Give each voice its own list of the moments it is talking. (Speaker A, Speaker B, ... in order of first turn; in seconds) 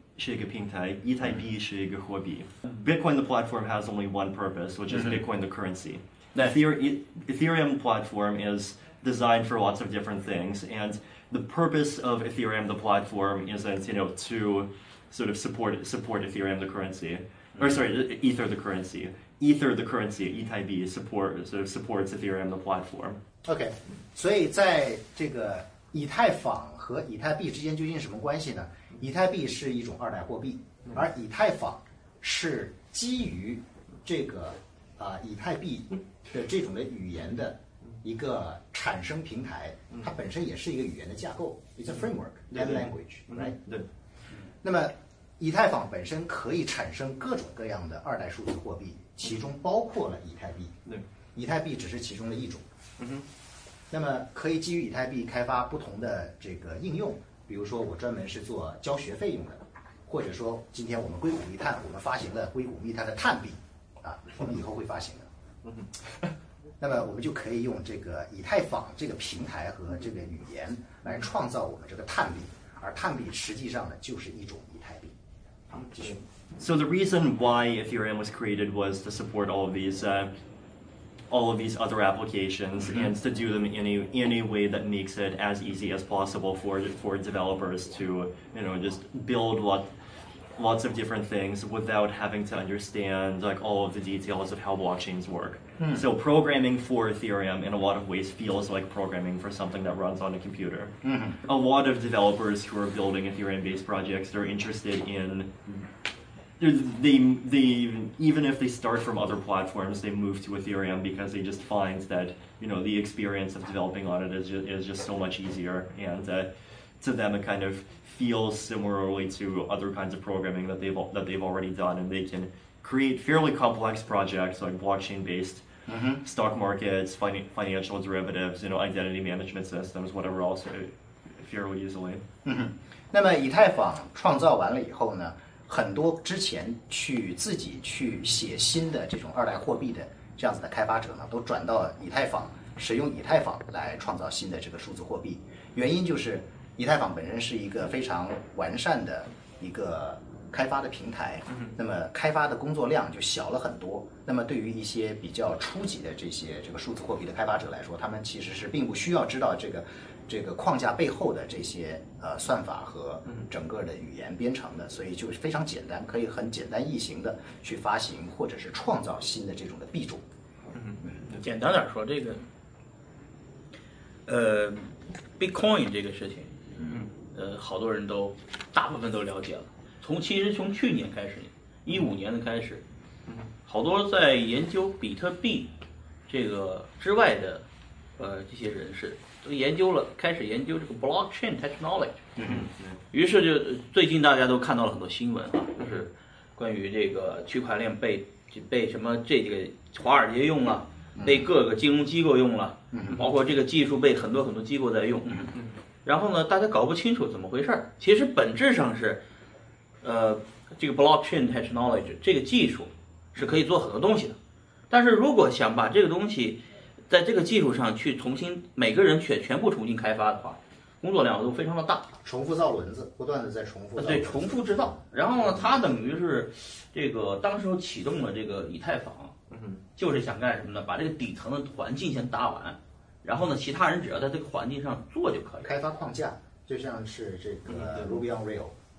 Speaker A: 0.2-23.2, 42.5-42.8, 43.3-43.9, 75.9-80.3, 81.3-89.9, 90.6-105.5, 106.6-125.7, 126.2-132.2, 192.4-193.0, 229.5-229.8
Speaker B: 23.4-43.6, 44.6-52.6, 53.9-65.3, 66.8-75.1, 75.8-76.2, 95.8-96.0, 101.0-101.4, 125.9-126.2, 132.4-170.2, 192.4-192.7, 201.2-201.5, 202.9-203.2, 222.2-224.6, 235.6-238.7
Speaker C: 171.1-172.5, 174.3-176.7, 177.2-182.8, 183.7-185.7, 186.3-187.7, 188.2-192.2, 193.1-209.2, 210.0-214.4, 214.9-222.1, 224.0-229.4, 230.0-235.7